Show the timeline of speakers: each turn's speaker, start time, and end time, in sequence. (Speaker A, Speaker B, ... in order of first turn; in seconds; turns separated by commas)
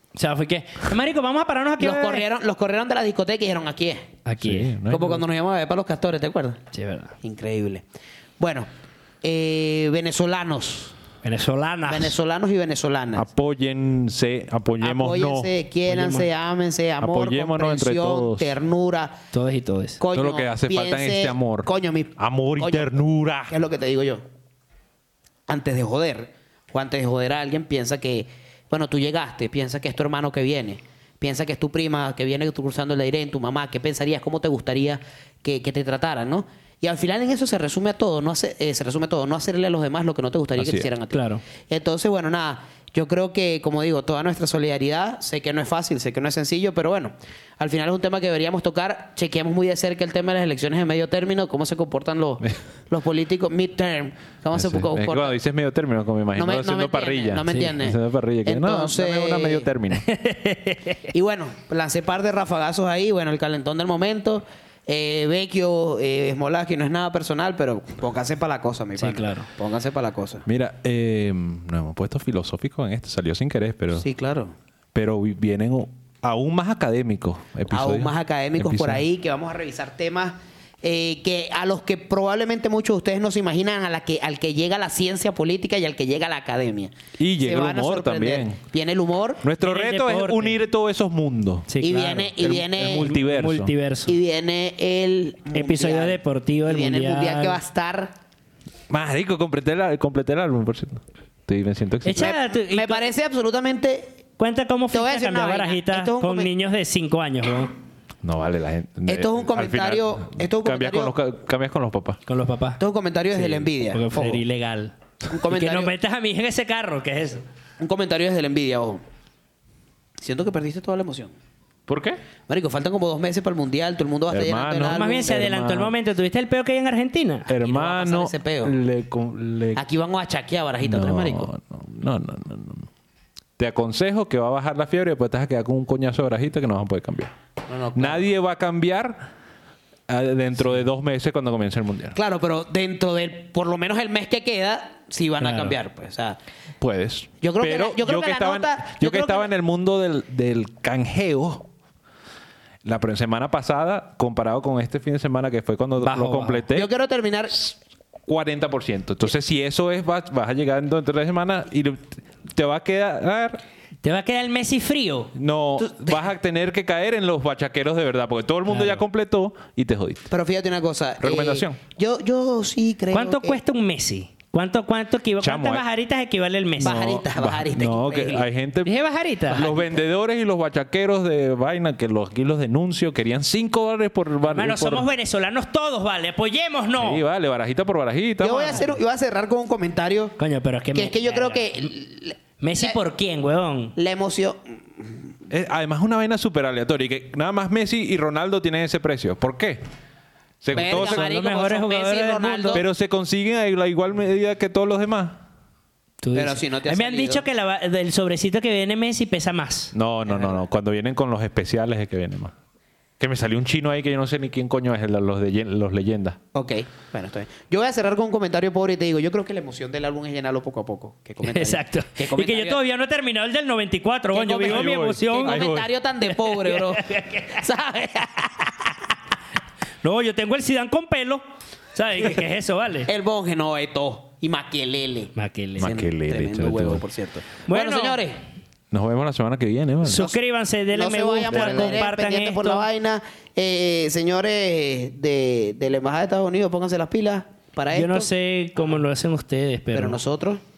Speaker A: 0.1-2.2, Speaker B: 1.8-4.1, Speaker A: 4.3-4.8, Speaker C: 4.4-5.2, Speaker B: 4.9-6.6, Speaker A: 6.7-7.2, Speaker B: 7.2-7.8, Speaker B: 8.4-8.7, Speaker B: 9.2-11.0, Speaker A: 11.2-12.2, Speaker B: 11.9-13.2, Speaker C: 13.2-15.5, Speaker B: 14.8-19.2, Speaker A: 15.9-16.3, Speaker C: 17.0-18.6, Speaker A: 19.3-20.0, Speaker B: 20.0-22.9, Speaker C: 20.1-23.5, Speaker B: 23.5-24.2, Speaker B: 25.5-55.4, Speaker C: 40.6-40.9, Speaker A: 41.1-41.4, Speaker C: 54.5-60.1, Speaker B: 56.4-59.7, Speaker A: 57.5-57.8, Speaker A: 60.0-61.0, Speaker B: 61.1-70.5, Speaker A: 69.0-69.5, Speaker C: 70.5-74.0, Speaker B: 74.0-74.5, Speaker C: 74.9-79.0, Speaker B: 77.7-89.4, Speaker C: 87.2-88.6, Speaker C: 89.4-91.7, Speaker A: 89.6-90.6, Speaker A: 91.7-92.3, Speaker B: 91.8-93.2, Speaker C: 92.4-93.7, Speaker A: 92.9-94.2, Speaker B: 94.1-98.1, Speaker A: 95.5-97.6, Speaker C: 98.9-102.4, Speaker A: 102.0-103.1, Speaker B: 102.2-104.2, Speaker A: 104.4-107.8, Speaker B: 104.9-106.5, Speaker C: 108.2-112.2, Speaker B: 109.1-111.1, Speaker A: 112.3-112.8, Speaker B: 112.8-114.4, Speaker A: 113.4-115.0, Speaker B: 115.3-115.9, Speaker A: 115.5-117.4, Speaker B: 117.8-119.0, Speaker B: 120.2-121.3, Speaker C: 121.9-122.2, Speaker B: 122.5-125.3, Speaker C: 124.3-125.9, Speaker A: 124.8-127.5, Speaker C: 127.5-129.8, Speaker B: 127.6-128.8, Speaker B: 129.8-131.5, Speaker C: 130.8-132.9, Speaker C: 133.6-137.3, Speaker B: 137.7-138.3, Speaker C: 137.9-139.3, Speaker C: 140.1-142.2, Speaker B: 142.2-146.4, Speaker A: 145.4-145.8, Speaker C: 146.8-151.7, Speaker B: 147.4-149.5, Speaker C: 152.8-156.9, Speaker A: 156.0-156.7, Speaker B: 156.7-157.7, Speaker C: 158.3-163.6, Speaker A: 164.0-165.3, Speaker C: 165.3-170.3, Speaker B: 165.8-166.2, Speaker A: 168.7-169.0, Speaker B: 170.3-173.6, Speaker C: 171.2-171.8, Speaker A: 173.1-177.1, Speaker C: 175.4-175.8, Speaker B: 176.8-178.5, Speaker C: 176.8-178.9, Speaker A: 178.8-179.7, Speaker C: 179.5-185.1, Speaker A: 184.5-187.2, Speaker C: 187.0-188.8, Speaker B: 188.4-190.4, Speaker A: 190.4-191.9, Speaker B: 190.9-193.0, Speaker A: 192.6-193.9, Speaker B: 194.0-195.3, Speaker C: 195.5-199.8, Speaker C: 200.6-201.3, Speaker B: 200.7-202.8, Speaker A: 200.8-202.8, Speaker C: 202.7-205.4, Speaker A: 206.2-209.9, Speaker B: 206.3-207.4, Speaker C: 209.9-212.5, Speaker B: 210.2-210.6, Speaker C: 213.2-216.4, Speaker B: 216.5-222.8, Speaker A: 221.4-225.7, Speaker B: 224.3-228.9, Speaker C: 224.6-225.9, Speaker A: 226.3-227.7, Speaker A: 230.0-231.4, Speaker A: 231.9-233.1, Speaker B: 233.1-238.4, Speaker A: 235.4-235.9, Speaker C: 235.8-237.0, Speaker A: 237.7-238.2, Speaker C: 238.9-240.3, Speaker A: 240.1-242.9, Speaker B: 240.9-248.3, Speaker C: 241.5-242.1, Speaker A: 247.9-250.2, Speaker B: 249.9-250.6